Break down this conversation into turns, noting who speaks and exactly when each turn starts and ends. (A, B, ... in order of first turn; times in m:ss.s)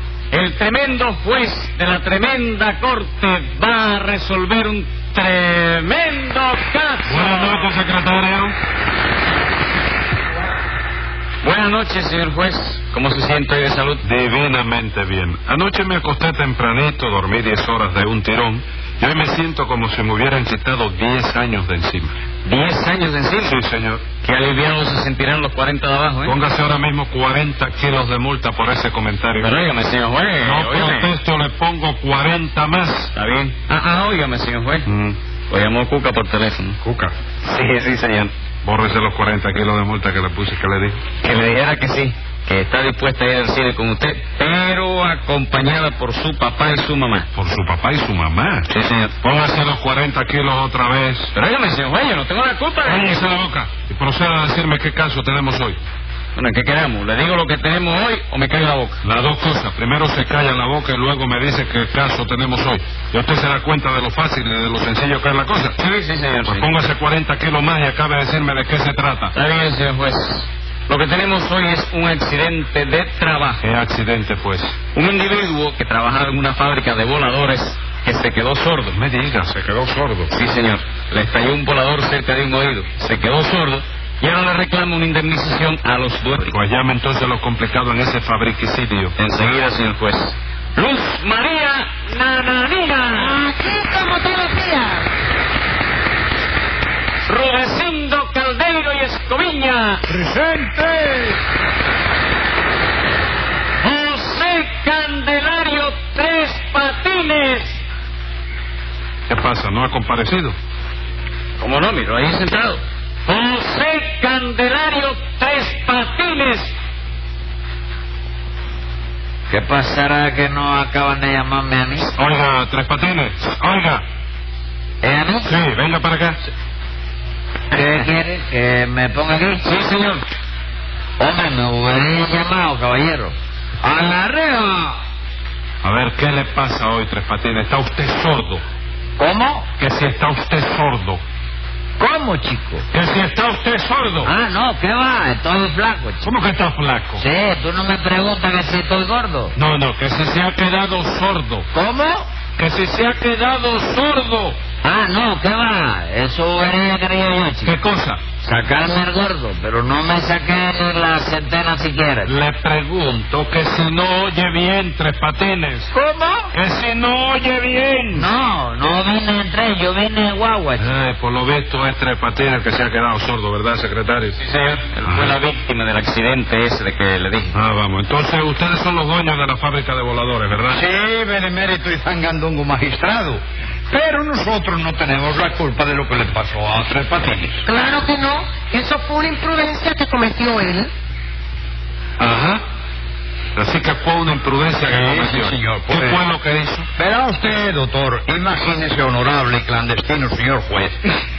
0:00.3-0:07.7 A
0:07.0-0:08.6 B
0:11.4-0:14.0 A
0:14.0-0:22.2 B
0:22.4-0:23.6 A
0:23.4-0:24.0 B
0:24.2-0:26.4 A
0:26.2-0:29.5 B
0:29.4-0:31.1 A
0:30.4-0:33.1 B
0:33.1-0:34.9 A
0:34.9-0:35.2 B
0:35.5-0:36.8 A
0:36.8-0:37.1 B
0:37.4-0:38.3 A
0:38.6-0:41.0 B
0:41.2-0:47.3 A
0:47.4-0:48.7 B
0:48.7-0:49.1 A
0:49.2-0:51.3 B
0:51.3-0:53.2 A
0:52.8-0:55.8 B
0:56.4-0:59.0 A
0:59.0-1:05.8 B
1:05.8-1:06.7 A
1:06.5-1:09.3 B
1:09.3-1:13.6 A
1:13.6-1:14.8 B
1:14.9-1:19.0 A
1:18.9-1:20.3 B
1:20.3-1:26.5 A
1:26.4-1:29.2 B
1:29.2-1:33.1 A
1:33.1-1:35.1 C
1:37.3-1:40.0 A
1:43.8-1:47.8 A
1:49.3-1:50.6 B
1:51.6-1:56.7 A
1:59.5-2:02.1 D
2:02.2-2:04.0 B
2:05.0-2:05.5 D
2:05.4-2:06.4 B
2:07.7-2:09.6 D
2:09.6-2:10.2 B
2:11.2-2:15.0 D
2:15.8-2:18.6 B
2:19.2-2:19.7 D
2:19.8-2:21.2 B
2:22.0-2:22.8 D
2:22.9-2:24.3 B
2:24.2-2:26.3 D
2:26.2-2:27.2 B
2:27.2-2:29.5 D
2:29.6-2:31.7 B
2:31.7-2:32.3 D
2:32.6-2:34.6 B
2:34.8-2:37.7 D
2:37.6-2:38.2 B
2:38.4-2:42.3 D
2:42.3-2:45.9 B
2:45.9-2:46.5 D
2:46.5-2:48.3 B
2:48.1-2:50.8 D
2:50.8-2:54.4 B
2:54.4-2:57.5 A
2:55.0-2:55.4 B
2:57.5-3:00.8 B
3:00.7-3:07.6 E
3:07.7-3:10.9 C
3:12.2-3:12.6 B
3:13.6-3:16.9 B
3:14.8-3:16.2 E
3:17.0-3:21.0 E